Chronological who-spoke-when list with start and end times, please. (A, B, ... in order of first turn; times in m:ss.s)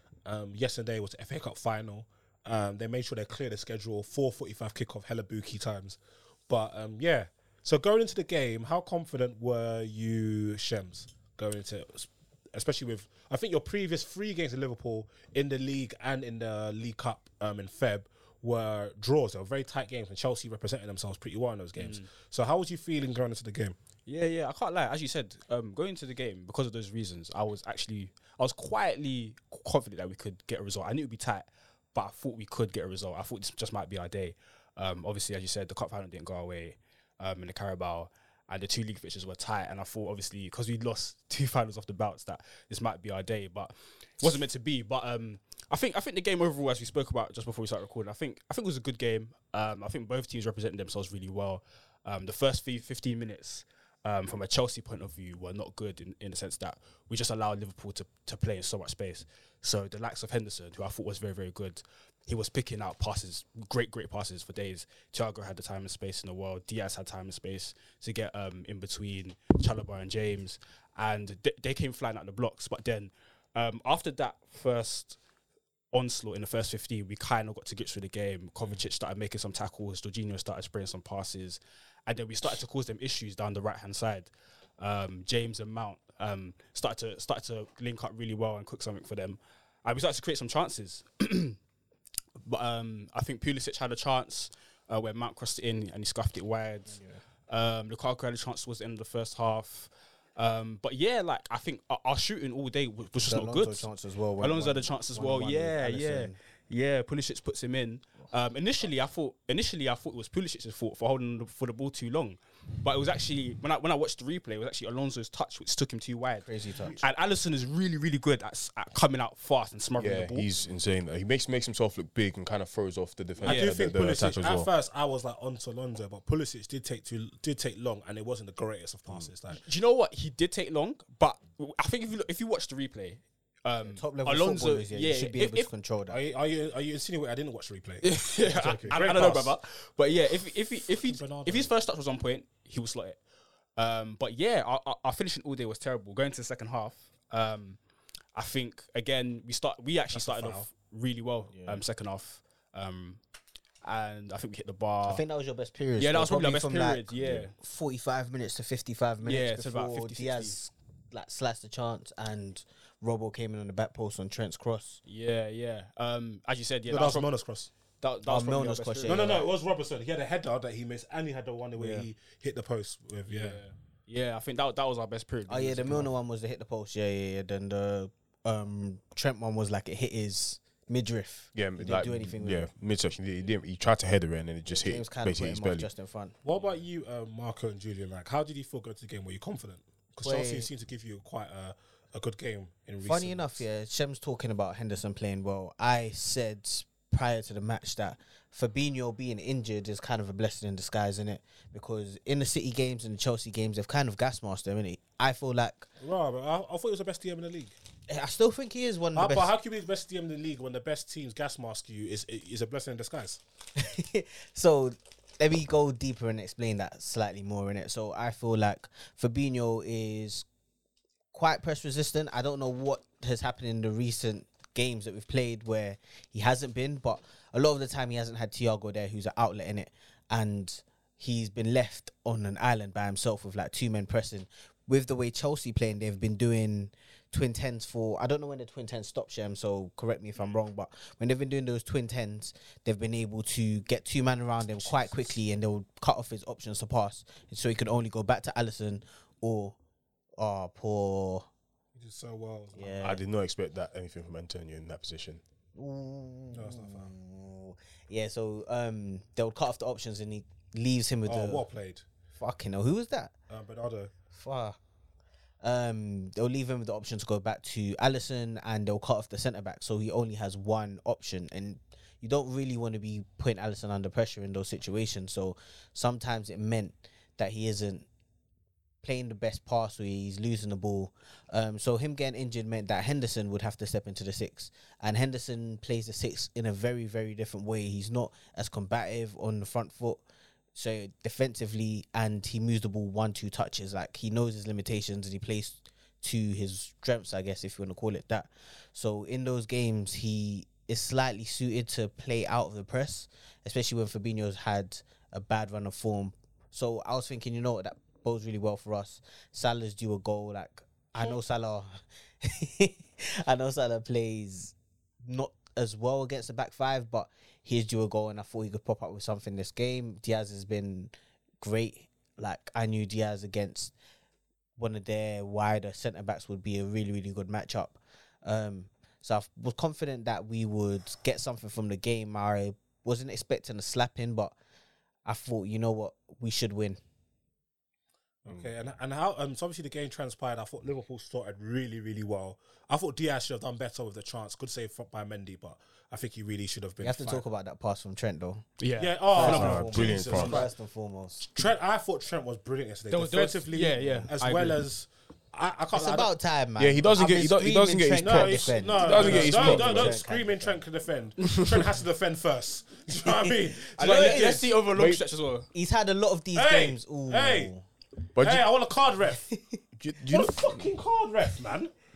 0:00.2-0:06.0 A
0:06.5-0:23.8 A
0:21.8-0:22.1 B
0:24.0-1:15.2 B
1:15.9-1:31.6 B
1:32.4-1:43.9 B
1:36.9-1:37.2 C
1:43.2-1:46.4 C
1:44.4-2:00.5 B
1:56.4-1:57.0 C
2:00.0-2:04.7 D
2:03.4-2:09.6 A
2:03.4-2:03.7 B
2:09.5-2:15.7 B
2:13.8-2:16.2 C
2:16.1-2:19.6 A
2:18.0-2:23.2 B
2:20.9-2:21.7 A
2:23.8-2:27.8 B
2:28.3-2:33.2 B
2:30.1-2:30.7 A
2:31.5-2:31.8 C
2:33.8-2:35.2 B
2:35.0-2:45.0 C
2:36.0-2:37.5 B
2:39.2-2:40.6 B
2:45.0-2:47.3 B
2:46.9-2:47.7 A
2:48.0-2:49.3 B
2:48.2-2:49.5 C
2:49.1-2:53.6 A
2:51.8-2:52.1 C
2:53.3-2:56.1 B
2:55.5-3:02.7 C
3:01.5-3:05.9 D
3:04.7-3:06.3 C
3:06.4-3:13.6 A
3:10.2-3:10.7 C
3:13.0-3:25.9 C
3:26.0-3:27.7 A
3:28.1-3:29.5 C
3:29.1-3:33.4 A
3:33.8-3:40.4 C
3:41.3-4:09.8 C
4:04.8-4:05.3 A
4:10.4-4:11.5 C
4:11.9-4:12.9 A
4:12.8-4:13.2 C
4:13.0-4:15.4 D
4:15.7-4:21.6 C
4:16.5-4:17.1 A
4:21.2-4:22.0 A
4:22.4-4:23.3 C
4:23.5-4:24.1 A
4:24.3-4:24.8 C
4:25.6-4:38.1 C
4:39.0-4:50.2 C
4:50.7-5:23.9 C
5:24.8-5:34.5 C
5:35.2-5:37.0 C
5:38.4-5:47.4 A
5:47.0-5:48.6 C
5:48.8-5:50.0 B
5:49.0-5:50.7 A
5:49.3-5:51.4 C
5:49.4-5:50.7 D
5:51.4-5:56.3 A
5:53.1-5:54.8 B
5:55.9-6:00.8 C
5:56.8-6:00.2 D
5:58.2-6:04.7 A
6:01.4-6:01.9 D
6:03.2-6:04.7 C
6:04.0-6:05.7 B
6:04.9-6:05.2 D
6:05.7-6:07.8 C
6:06.5-6:07.7 A
6:08.4-6:08.6 D
6:08.4-6:09.4 A
6:09.5-6:09.8 C
6:10.0-6:10.6 D
6:10.3-6:11.9 A